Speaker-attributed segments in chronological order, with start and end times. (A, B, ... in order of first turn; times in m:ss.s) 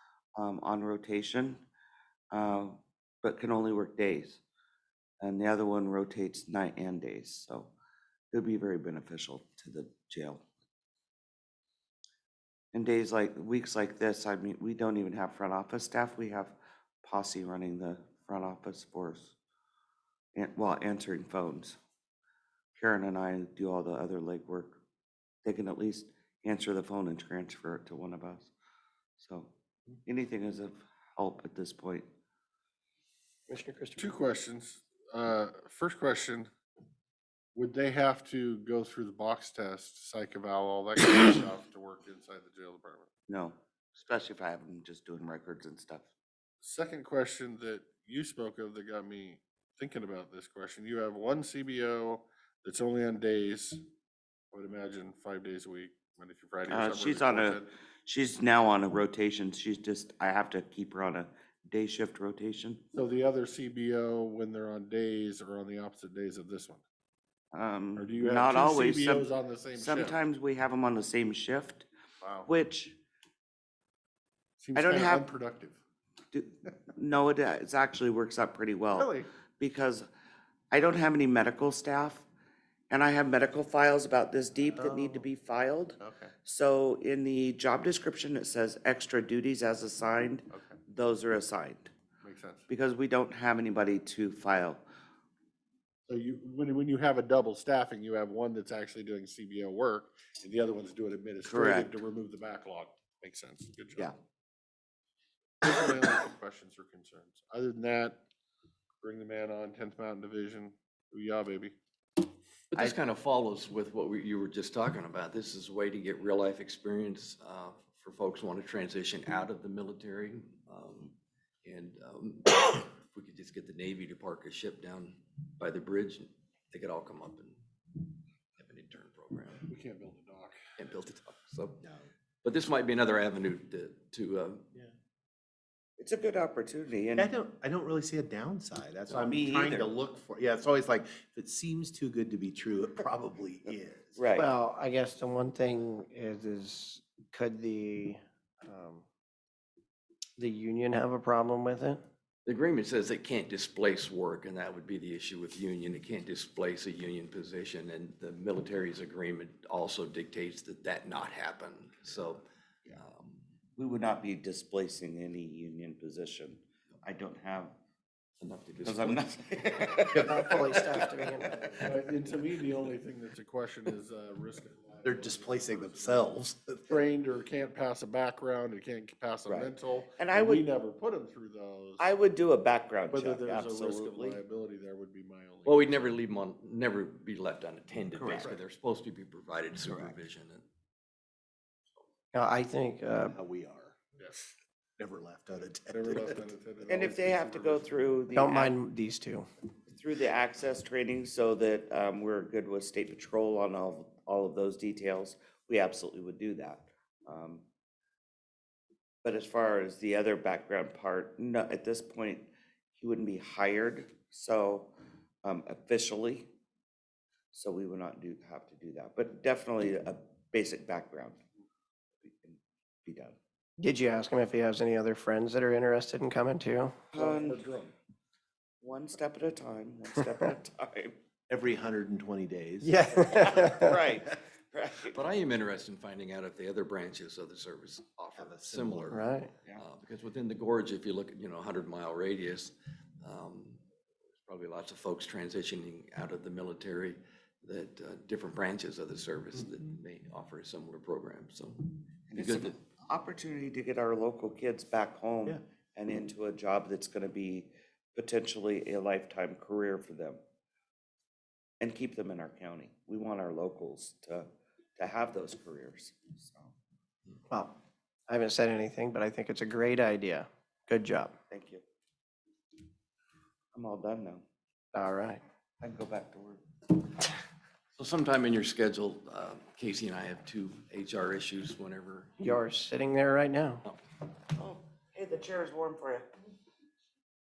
0:00.4-0:01.6 A
0:02.3-0:04.4 A
0:05.2-0:07.7 A
0:08.3-0:10.4 A
0:12.7-0:19.4 A
0:20.3-0:21.8 A
0:22.8-0:24.8 A
0:25.4-0:28.5 A
0:29.2-0:29.5 A
0:30.0-0:32.1 A
0:33.5-0:34.1 B
0:34.0-0:36.5 C
0:37.5-0:43.1 C
0:43.3-0:46.1 A
0:46.6-0:53.8 C
0:54.5-0:57.6 C
0:56.7-1:02.8 A
1:02.9-1:06.8 C
1:07.5-1:09.3 A
1:08.0-1:10.1 C
1:09.8-1:11.8 A
1:12.2-1:12.5 C
1:12.4-1:13.0 A
1:14.6-1:15.8 C
1:14.8-1:15.2 A
1:16.3-1:20.1 A
1:19.0-1:19.3 C
1:20.7-1:22.2 A
1:22.9-1:31.9 A
1:26.0-1:26.3 C
1:32.2-1:32.6 C
1:32.7-1:34.8 A
1:36.1-1:44.1 C
1:41.5-1:41.9 A
1:45.6-1:48.2 C
1:49.0-1:51.7 C
1:52.7-2:07.6 D
2:08.6-2:09.6 D
2:09.7-2:10.6 C
2:10.8-2:11.8 D
2:11.8-2:12.1 E
2:12.4-2:14.6 D
2:16.0-2:17.3 A
2:17.2-2:24.3 E
2:19.3-2:19.9 A
2:24.2-2:24.5 A
2:24.4-2:29.0 B
2:30.4-2:32.0 B
2:32.4-2:43.4 D
2:43.8-2:47.7 A
2:48.4-2:50.3 D
2:48.8-2:51.7 A
2:50.1-2:51.8 B
2:51.8-2:56.4 C
2:55.0-2:56.9 E
2:56.9-3:02.0 C
2:59.5-3:00.6 A
3:02.0-3:04.4 A
3:03.1-3:06.0 C
3:05.6-3:10.6 D
3:12.3-3:13.3 B
3:13.2-3:14.0 E
3:14.2-3:14.4 C
3:15.0-3:16.5 E
3:15.9-3:17.9 C
3:16.9-3:18.8 A
3:18.3-3:19.5 B
3:19.9-3:27.6 A
3:29.2-3:34.9 A
3:35.4-3:36.5 A
3:37.5-3:41.4 A
3:42.2-3:43.4 A
3:43.8-3:47.0 B
3:47.1-3:47.9 A
3:48.8-3:51.2 A
3:51.5-3:52.9 E
3:52.8-3:54.0 B
3:53.0-3:55.2 A
3:55.1-4:03.8 D
3:58.4-3:59.2 E
3:59.1-3:59.5 B
4:04.4-4:12.8 D
4:12.3-4:20.4 A
4:21.8-4:26.7 A
4:27.5-4:27.7 B
4:28.3-4:31.3 B
4:31.5-4:31.8 A
4:33.7-4:34.4 A
4:34.9-4:35.4 B
4:35.8-4:36.6 A
4:38.0-4:42.4 D
4:42.4-4:43.8 B
4:44.5-4:46.3 A